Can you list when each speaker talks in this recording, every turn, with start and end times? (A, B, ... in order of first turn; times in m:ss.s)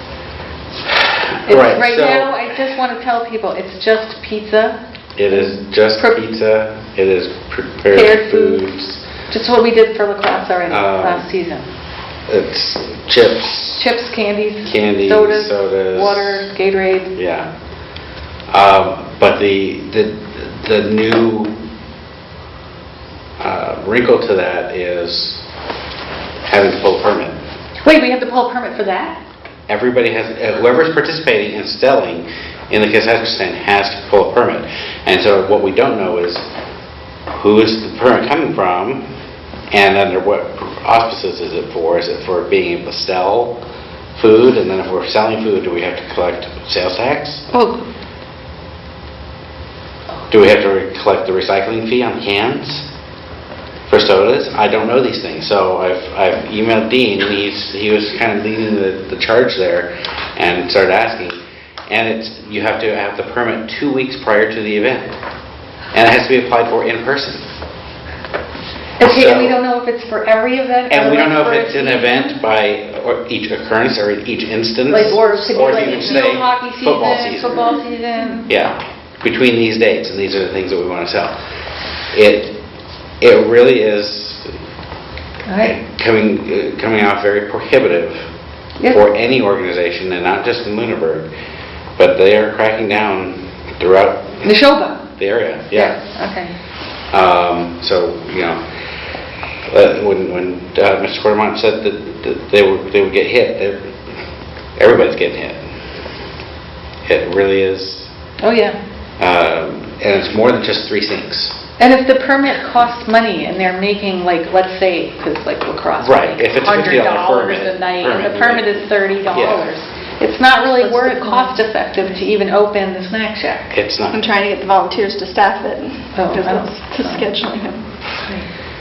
0:01.0-0:02.4 A
0:01.5-0:04.8 B
0:05.2-0:09.0 A
0:05.3-0:06.2 B
0:07.9-0:08.6 B
0:09.3-0:11.6 B
0:10.7-0:11.3 A
0:12.3-0:13.8 A
0:13.8-0:17.2 B
0:14.6-0:16.5 A
0:17.2-0:17.5 A
0:18.5-0:21.6 A
0:23.4-0:25.4 A
0:26.5-0:27.4 A
0:27.8-0:29.2 B
0:29.7-0:36.4 A
0:37.3-0:39.1 A
0:39.7-0:43.6 A
0:44.2-0:47.4 A
0:47.5-0:47.8 C
0:50.3-0:52.9 A
0:53.9-1:01.4 A
1:01.9-1:05.2 A
1:05.9-1:07.4 A
1:09.0-1:12.4 B
1:09.0-1:09.6 A
1:10.9-1:17.7 A
1:14.9-1:18.5 B
1:15.3-1:16.0 C
1:18.5-1:21.4 A
1:22.1-1:22.6 A
1:23.2-1:24.5 A
1:25.5-1:25.8 B
1:25.6-1:28.3 A
1:28.8-1:29.0 B
1:28.9-1:31.3 A
1:32.0-1:34.5 A
1:34.4-1:35.1 B
1:35.2-1:36.0 A
1:35.7-1:36.6 B
1:37.1-1:38.6 A
1:39.7-1:43.9 A
1:44.8-1:45.6 A
1:47.1-1:48.1 A
1:48.4-1:48.8 B
1:49.2-1:51.6 A
1:51.8-2:03.8 B
1:56.0-1:59.7 A
2:00.8-2:01.6 C
2:03.7-2:04.2 A
2:04.1-2:07.8 C
2:06.2-2:07.3 B